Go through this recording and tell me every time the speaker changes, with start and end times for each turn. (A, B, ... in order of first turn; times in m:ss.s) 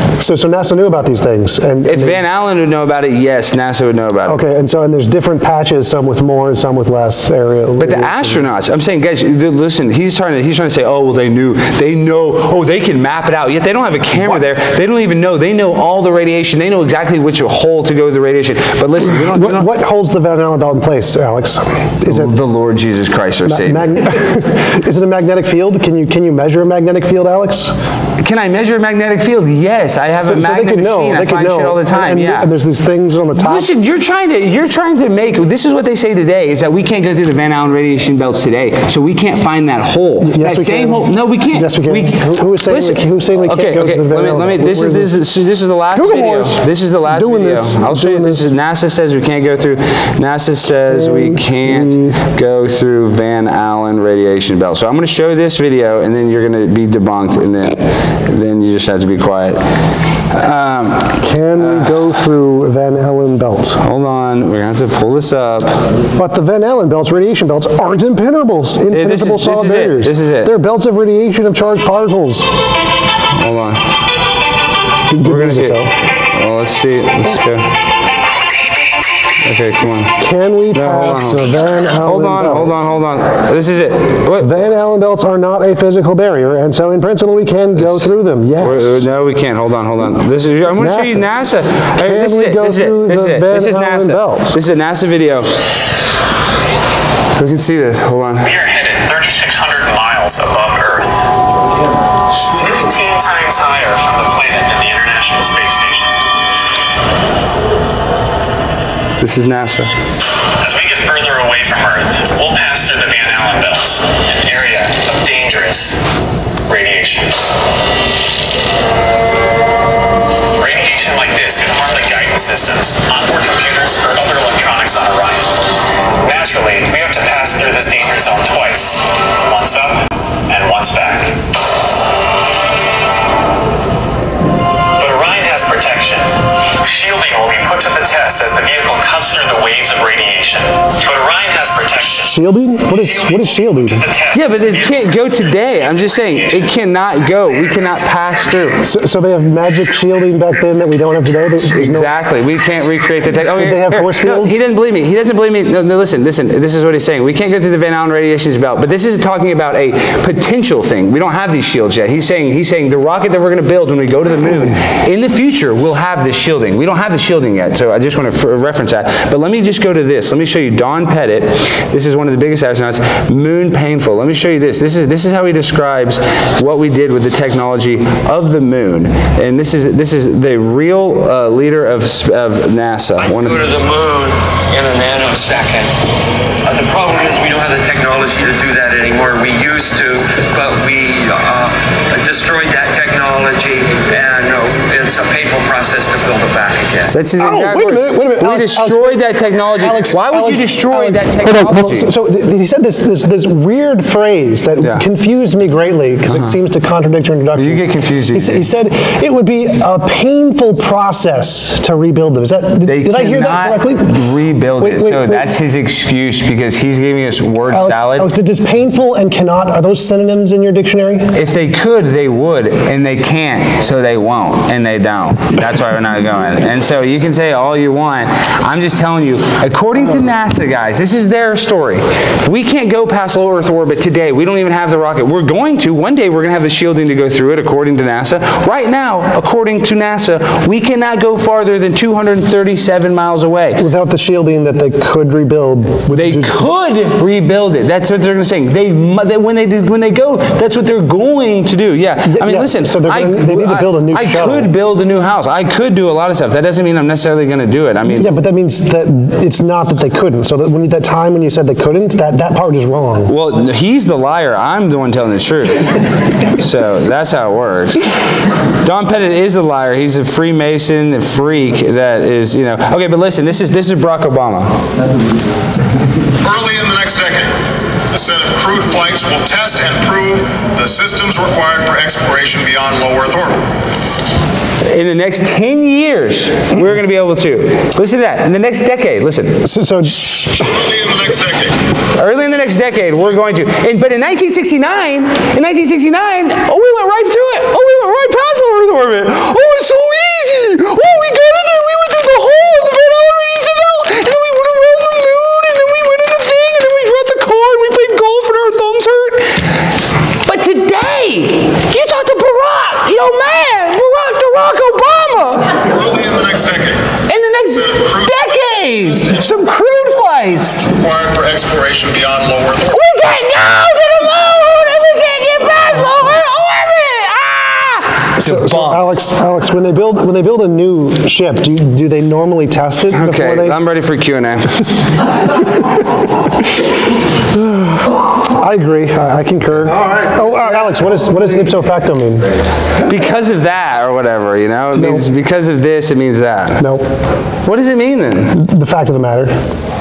0:00.2-0:02.2 A
0:01.8-0:04.4 B
0:04.3-0:08.4 A
0:07.8-0:19.7 B
0:14.2-0:14.5 A
0:19.2-0:22.4 A
0:22.0-0:24.0 B
0:23.5-0:27.8 A
0:28.2-0:32.5 B
0:30.2-0:33.7 A
0:33.4-0:59.6 B
0:40.2-0:45.2 A
0:45.9-0:48.5 A
0:50.9-0:52.2 A
1:00.3-1:02.1 B
1:01.2-1:03.8 A
1:03.8-1:05.8 B
1:06.2-1:12.5 A
1:08.9-1:10.5 B
1:13.3-1:13.9 B
1:15.1-1:15.9 A
1:15.2-1:17.7 B
1:19.4-1:20.2 B
1:20.2-1:22.8 A
1:20.7-1:24.6 B
1:24.4-1:29.0 A
1:27.8-1:35.5 B
1:30.8-1:31.3 A
1:32.0-1:34.6 A
1:37.4-1:38.5 B
1:38.4-1:41.2 C
1:42.5-1:46.2 C
1:49.2-1:49.9 B
1:50.6-1:56.0 C
1:56.7-1:57.3 C
2:00.6-2:05.5 C
2:06.2-2:11.4 C
2:15.0-2:25.0 C
2:22.2-2:24.1 A
2:24.3-2:28.8 B
2:25.8-2:26.7 C
2:28.8-2:32.1 A
2:31.8-3:03.6 B
2:33.5-2:34.6 A
3:03.2-3:05.9 D
3:06.6-3:17.1 D
3:17.1-3:22.1 B
3:17.4-3:34.2 A
3:26.3-3:26.6 B
3:27.6-3:28.6 B
3:32.9-3:38.3 B
3:34.8-3:35.5 A
3:37.7-3:41.3 A
3:41.3-4:03.8 B
4:03.8-4:06.7 A
4:06.1-4:18.3 B
4:12.2-4:14.7 A
4:18.1-4:23.3 A
4:23.3-4:25.9 B
4:26.5-4:28.0 B
4:28.8-4:34.7 B
4:36.4-4:37.5 E
4:38.1-4:43.6 E
4:44.9-4:49.6 B
4:49.6-4:50.5 A
4:50.6-4:51.8 E
4:52.2-5:09.7 B
5:10.4-5:15.8 B
5:15.8-5:17.0 E
5:17.3-5:20.8 B
5:17.7-5:19.4 E
5:20.8-5:23.0 E
5:22.9-5:29.0 B
5:28.4-5:33.8 A
5:33.1-5:34.9 B
5:37.5-5:42.5 A
5:43.0-5:46.9 B
5:44.9-5:45.3 A
5:46.8-5:47.0 A
5:47.6-5:48.6 B
5:48.5-5:49.6 A